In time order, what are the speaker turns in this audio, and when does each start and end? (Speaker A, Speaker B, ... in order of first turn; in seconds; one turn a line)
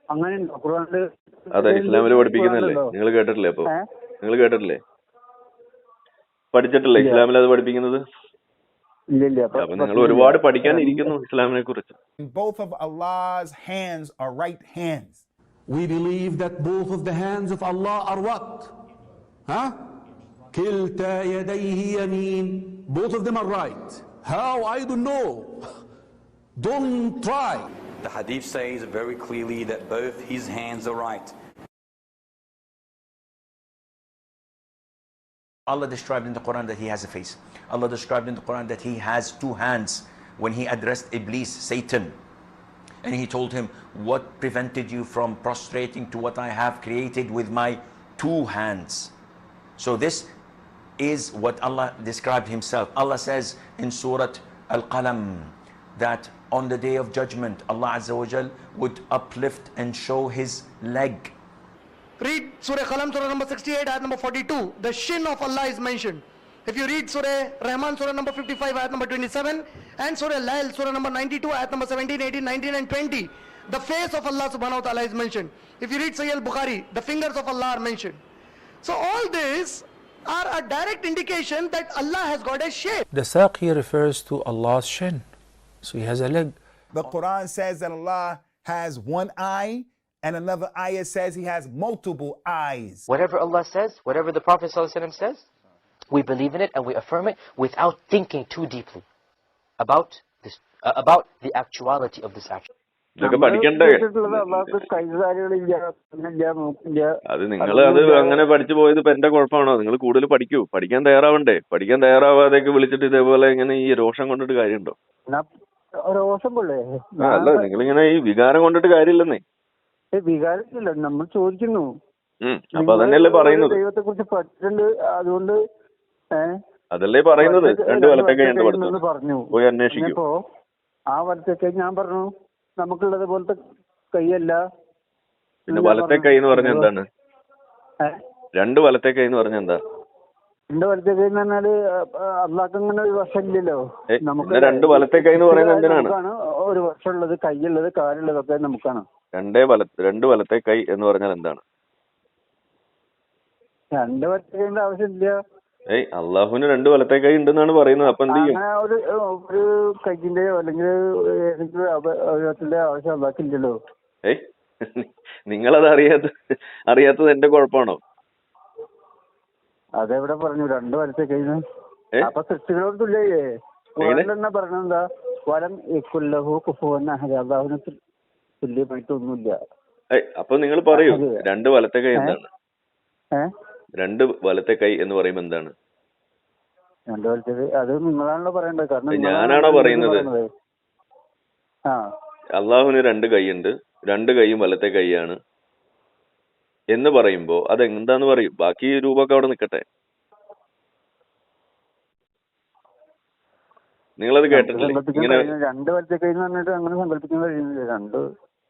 Speaker A: 0.1-2.9
Speaker B: 1.5-3.7
Speaker B: 4.2-4.8
Speaker B: 6.5-8.0
Speaker A: 7.0-7.2
Speaker A: 9.1-11.1
Speaker B: 9.6-12.0
Speaker C: 12.2-15.2
Speaker D: 15.7-18.8
Speaker D: 19.5-19.8
Speaker D: 20.5-25.8
Speaker D: 26.6-27.7
Speaker E: 28.0-31.3
Speaker F: 35.7-42.1
Speaker F: 43.0-49.1
Speaker F: 49.8-50.3
Speaker F: 51.0-61.3
Speaker G: 62.2-78.2
Speaker G: 78.8-83.0
Speaker H: 83.1-85.2
Speaker H: 85.8-86.6
Speaker C: 86.9-93.1
Speaker I: 93.1-95.5
Speaker I: 96.1-99.0
Speaker I: 99.8-102.7
Speaker B: 103.2-104.6
Speaker A: 103.2-107.1
Speaker B: 107.3-114.9
Speaker A: 107.6-108.4
Speaker A: 116.1-117.6
Speaker B: 117.2-119.4
Speaker A: 120.2-121.9
Speaker B: 122.4-123.8
Speaker A: 122.8-125.5
Speaker B: 126.9-129.0
Speaker A: 127.4-130.3
Speaker B: 129.5-130.2
Speaker A: 131.1-132.2
Speaker A: 132.8-133.5
Speaker A: 134.1-134.6
Speaker B: 135.7-137.0
Speaker A: 135.7-136.9
Speaker B: 138.6-139.8
Speaker A: 140.7-141.7
Speaker A: 142.4-149.0
Speaker B: 144.1-146.1
Speaker B: 149.3-151.6
Speaker A: 153.9-155.3
Speaker B: 155.9-158.6
Speaker A: 158.3-160.9
Speaker A: 161.4-163.7
Speaker B: 164.2-166.3
Speaker B: 166.9-168.0
Speaker A: 170.0-171.6
Speaker A: 172.2-173.4
Speaker A: 174.0-177.9
Speaker B: 174.0-174.3
Speaker A: 178.6-179.6
Speaker B: 180.2-182.5
Speaker A: 180.9-181.4
Speaker B: 184.0-185.7
Speaker A: 187.1-190.4
Speaker B: 189.1-190.3
Speaker B: 192.6-195.4
Speaker B: 196.9-199.8
Speaker B: 204.2-205.5
Speaker A: 204.5-208.2